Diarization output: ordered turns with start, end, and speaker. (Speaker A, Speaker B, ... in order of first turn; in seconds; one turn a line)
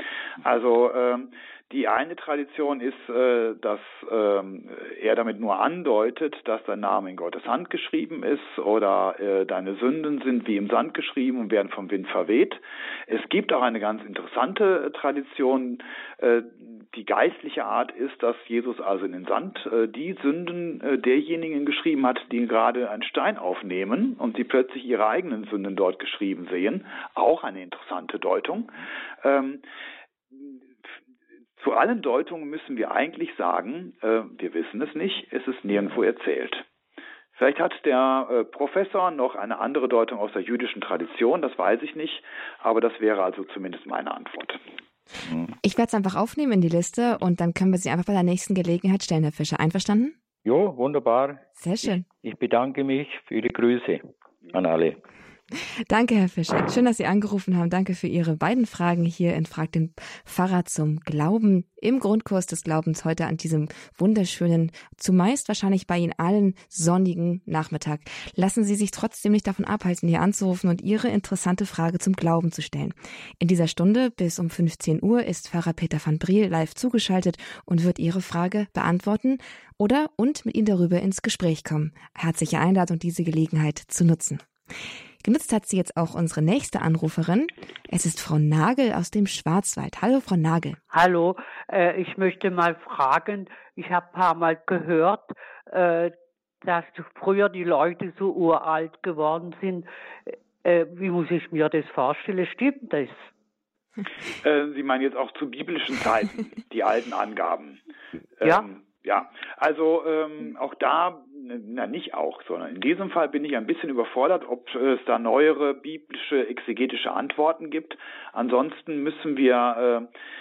Speaker A: 0.4-29.6
Speaker A: 31.6-36.6
Speaker B: 35.7-36.0
Speaker A: 37.4-44.6
Speaker B: 45.2-45.6
Speaker C: 45.6-50.1
Speaker B: 50.5-55.0
Speaker C: 51.6-52.0
Speaker C: 55.9-84.4
Speaker C: 85.2-90.8
Speaker D: 90.9-96.1
Speaker D: 96.6-99.9
Speaker D: 100.6-103.3
Speaker A: 104.4-107.8
Speaker A: 108.4-120.1